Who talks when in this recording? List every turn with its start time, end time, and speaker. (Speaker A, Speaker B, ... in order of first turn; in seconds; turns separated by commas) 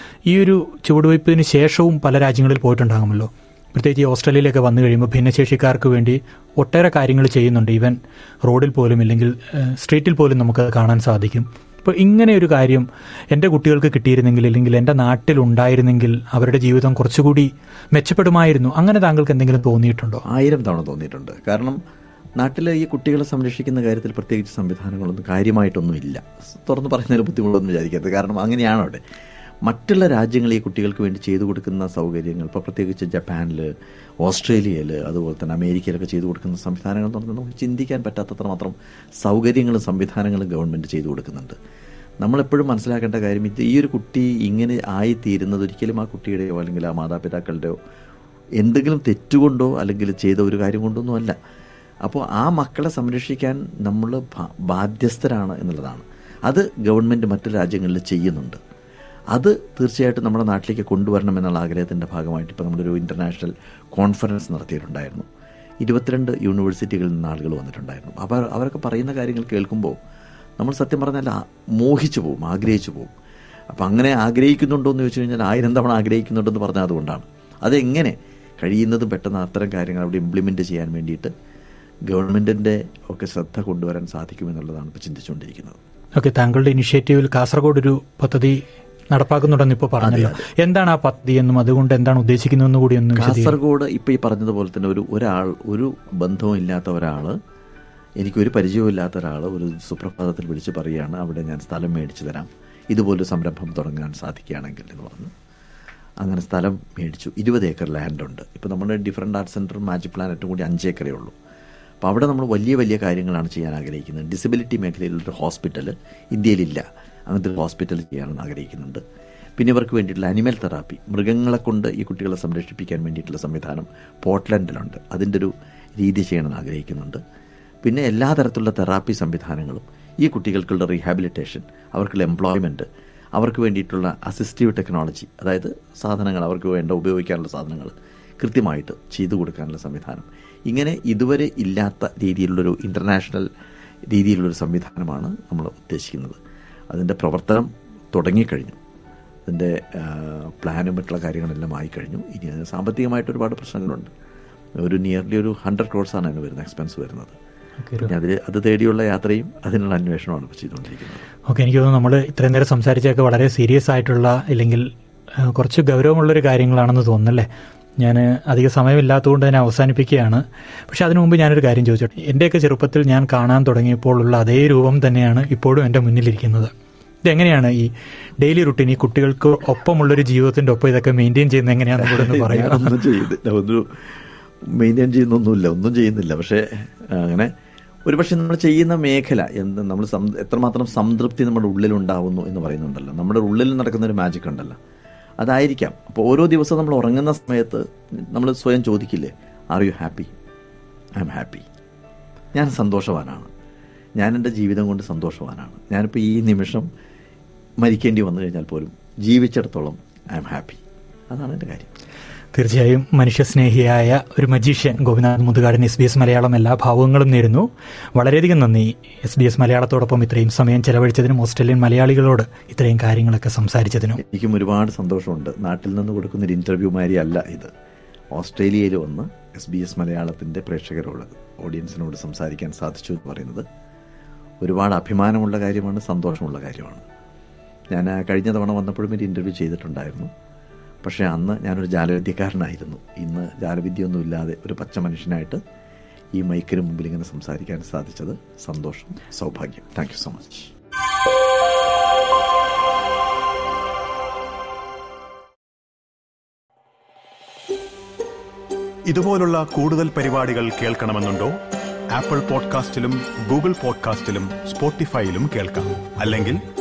Speaker A: 0.2-20.2, Speaker B: 20.3-21.8, Speaker B: 22.4-29.0, Speaker B: 29.6-33.7, Speaker B: 34.2-41.5, Speaker B: 42.2-47.7, Speaker B: 48.6-51.4, Speaker B: 52.0-58.6, Speaker B: 59.3-65.2, Speaker B: 65.8-70.0, Speaker B: 70.6-73.1, Speaker B: 73.7-81.3, Speaker B: 82.1-85.8, Speaker A: 86.2-88.6, Speaker A: 89.1-93.6, Speaker B: 90.0-90.5, Speaker B: 93.2-97.3, Speaker B: 98.2-105.3, Speaker B: 106.2-111.3, Speaker B: 112.0-119.0, Speaker B: 119.6-127.2, Speaker B: 127.8-143.5, Speaker B: 144.1-146.4, Speaker B: 146.9-148.8, Speaker B: 149.5-154.1, Speaker B: 154.8-157.3, Speaker A: 157.8-158.1, Speaker B: 158.0-161.2, Speaker A: 161.5-167.5, Speaker A: 168.0-176.7, Speaker A: 177.2-177.9, Speaker A: 178.4-183.0, Speaker B: 182.0-187.5, Speaker B: 188.1-194.8, Speaker B: 195.4-200.3, Speaker B: 201.2-201.7, Speaker B: 202.5-203.5, Speaker B: 204.2-206.9, Speaker B: 207.8-211.9, Speaker A: 212.5-224.2, Speaker B: 224.2-227.7, Speaker B: 228.3-233.6, Speaker B: 234.6-237.0, Speaker B: 237.9-240.3, Speaker B: 241.0-245.6, Speaker B: 246.3-250.7, Speaker C: 259.1-261.5, Speaker C: 262.1-266.6